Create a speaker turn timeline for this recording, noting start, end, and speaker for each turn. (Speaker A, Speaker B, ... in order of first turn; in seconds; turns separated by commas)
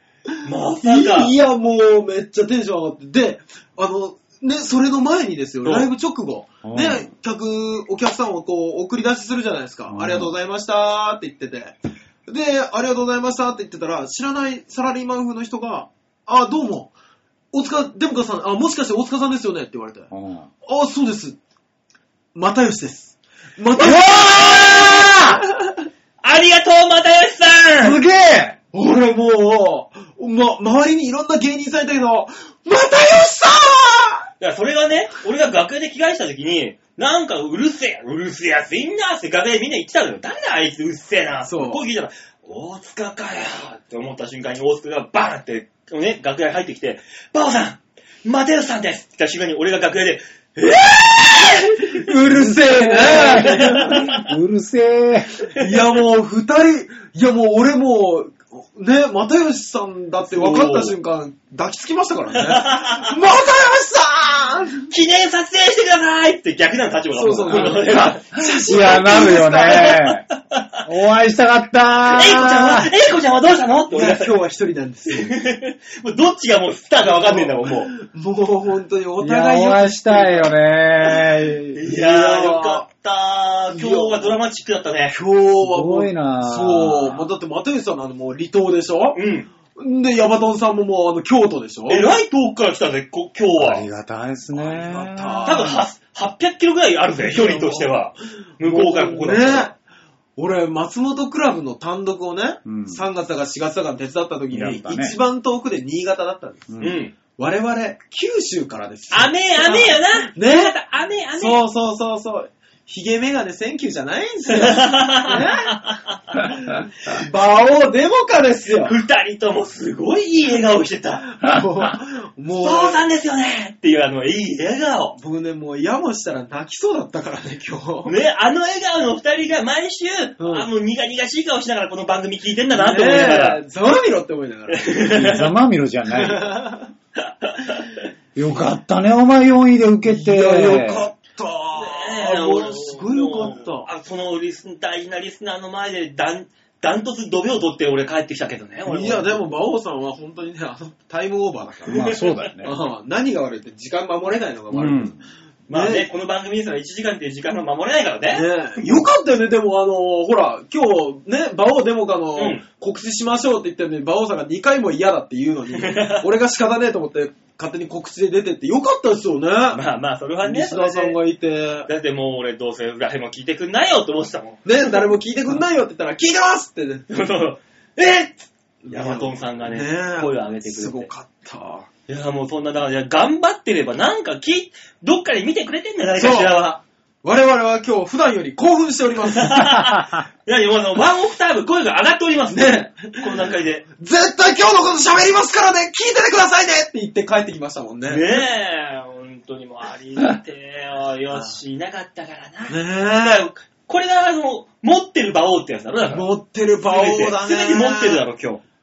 Speaker A: 0.4-1.3, Speaker B: 0.8-11.8, Speaker A: 5.6-5.9, Speaker C: 6.6-7.1, Speaker C: 9.9-10.3, Speaker B: 12.3-16.9, Speaker B: 17.5-20.1, Speaker C: 20.1-20.5, Speaker B: 20.6-21.4, Speaker B: 22.3-25.9, Speaker C: 23.8-25.4, Speaker A: 26.2-28.0, Speaker C: 27.8-28.6, Speaker B: 28.7-34.3, Speaker A: 34.4-52.0, Speaker B: 41.5-41.8, Speaker B: 51.7-54.0, Speaker C: 52.3-55.3, Speaker A: 53.1-54.2, Speaker B: 55.5-64.9, Speaker A: 60.3-60.9, Speaker A: 62.4-63.1, Speaker A: 64.9-70.8, Speaker B: 67.1-70.1, Speaker C: 67.5-70.3, Speaker C: 70.8-72.9, Speaker A: 72.2-74.3, Speaker B: 72.2-72.8, Speaker B: 73.9-75.3, Speaker A: 75.1-77.9, Speaker B: 77.0-82.8, Speaker C: 79.2-81.8, Speaker A: 81.8-85.2, Speaker B: 83.7-84.4, Speaker B: 85.1-89.2, Speaker C: 85.6-87.3, Speaker A: 89.1-89.5, Speaker B: 89.8-92.1, Speaker A: 91.9-93.9, Speaker C: 93.6-95.6, Speaker B: 94.5-95.8, Speaker A: 95.4-99.7, Speaker B: 97.2-98.0, Speaker B: 98.6-99.7, Speaker B: 100.4-110.7, Speaker C: 102.6-103.0, Speaker C: 104.5-105.2, Speaker C: 106.7-107.0, Speaker A: 106.8-107.1, Speaker A: 109.1-111.6, Speaker B: 111.4-115.8, Speaker A: 114.5-116.0, Speaker B: 116.3-119.0, Speaker A: 118.8-121.3, Speaker B: 121.4-123.0, Speaker A: 122.5-125.2, Speaker B: 125.2-128.2, Speaker A: 128.0-133.6, Speaker B: 130.4-130.7, Speaker B: 132.7-135.1, Speaker A: 134.7-135.5, Speaker C: 135.1-136.6, Speaker B: 136.1-136.9, Speaker A: 137.2-138.1, Speaker C: 138.3-141.0, Speaker B: 140.0-143.9, Speaker A: 141.7-149.4, Speaker B: 148.9-152.1, Speaker A: 151.9-152.5, Speaker C: 151.9-152.8, Speaker B: 152.6-155.2, Speaker C: 154.7-155.2, Speaker A: 155.7-159.1, Speaker B: 155.7-156.1, Speaker B: 158.3-169.8, Speaker A: 162.3-162.6, Speaker A: 165.8-166.2, Speaker A: 169.7-171.2, Speaker B: 170.4-171.9, Speaker A: 171.9-174.9, Speaker B: 174.6-177.1, Speaker A: 177.1-181.1, Speaker B: 178.8-181.9, Speaker A: 182.1-186.8, Speaker B: 186.2-186.6, Speaker B: 187.2-189.7, Speaker A: 189.3-193.8, Speaker B: 192.5-198.4, Speaker A: 198.1-206.3, Speaker B: 202.7-203.5, Speaker B: 206.1-208.2, Speaker A: 206.8-208.6